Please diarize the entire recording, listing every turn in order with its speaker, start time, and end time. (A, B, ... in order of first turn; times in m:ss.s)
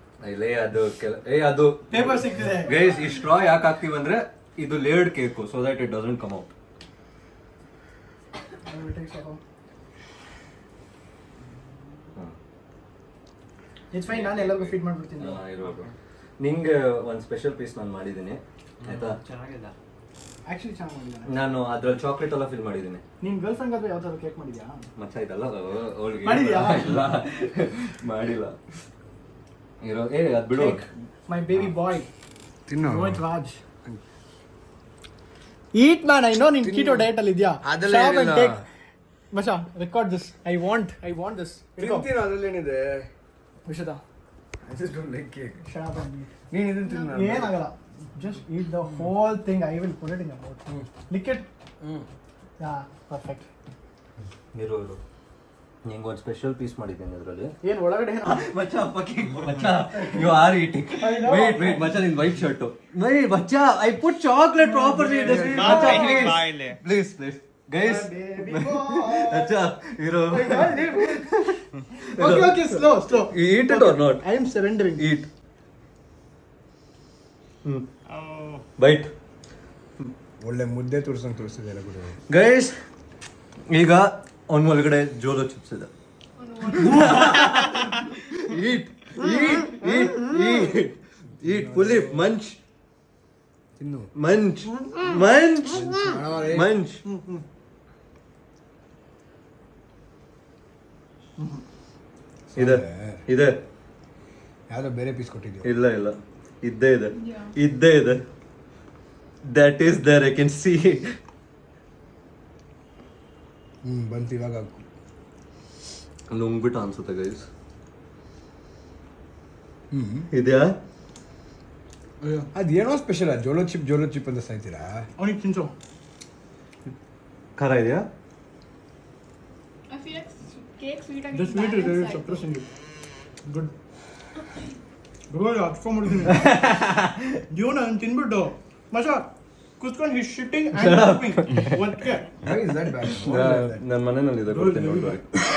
0:00.2-0:06.5 A
0:01.9-0:03.0 B
0:08.6-0:09.4 B
0:13.9-0:15.4 B
0:14.0-0:19.2 A
0:15.5-0:15.9 C
0:18.8-0:19.7 C
0:20.4-0:21.4 B
0:21.2-0:23.0 A
0:23.2-0:24.9 B
0:25.0-0:28.6 A
0:26.2-0:27.0 B
0:29.8-0:30.8 A
0:30.5-0:32.1 B
0:32.7-0:33.2 D
0:32.8-0:33.6 B
0:35.7-0:38.7 B
0:36.6-0:37.1 D
0:37.6-0:38.6 D
0:39.3-0:42.1 B
0:41.8-0:43.1 D
0:43.6-0:44.0 B
0:44.6-0:45.6 D
0:45.6-0:46.3 B
0:46.5-0:47.5 D
0:47.0-0:51.5 B
0:52.6-0:53.5 B
0:54.5-0:55.0 A
0:55.8-0:57.6 A
0:57.6-0:58.5 B
0:58.2-1:14.2 A
1:01.0-1:02.1 B
1:04.6-1:06.4 B
1:05.4-1:06.8 C
1:07.8-1:09.6 B
1:10.3-1:11.4 B
1:12.0-1:15.1 B
1:15.0-1:15.3 A
1:18.8-1:19.1 A
1:20.4-1:22.2 D
1:22.3-1:22.7 A
1:23.7-1:25.9 A
1:26.4-1:27.1 E
1:26.6-1:32.6 A
1:31.4-1:32.2 D
1:33.8-1:34.1 D
1:34.1-1:37.0 A
1:35.7-1:36.8 D
1:42.5-1:43.2 D
1:42.6-1:43.6 A
1:44.7-1:45.7 D
1:45.6-1:48.2 A
1:47.2-1:47.5 E
1:49.4-1:51.0 A
1:53.8-1:54.8 D
1:56.3-1:57.4 A
1:59.9-2:00.3 D
2:00.3-2:00.7 A
2:02.2-2:02.5 B
2:02.5-2:05.1 D
2:05.2-2:05.7 B
2:07.6-2:08.0 A
2:09.9-2:12.4 E
2:11.3-2:12.7 B
2:13.4-2:13.7 B
2:15.3-2:16.7 B
2:16.4-2:17.1 A
2:17.5-2:19.3 B
2:19.8-2:22.4 B
2:20.8-2:21.7 A
2:22.4-2:23.8 D
2:23.2-2:25.3 A
2:24.5-2:25.2 B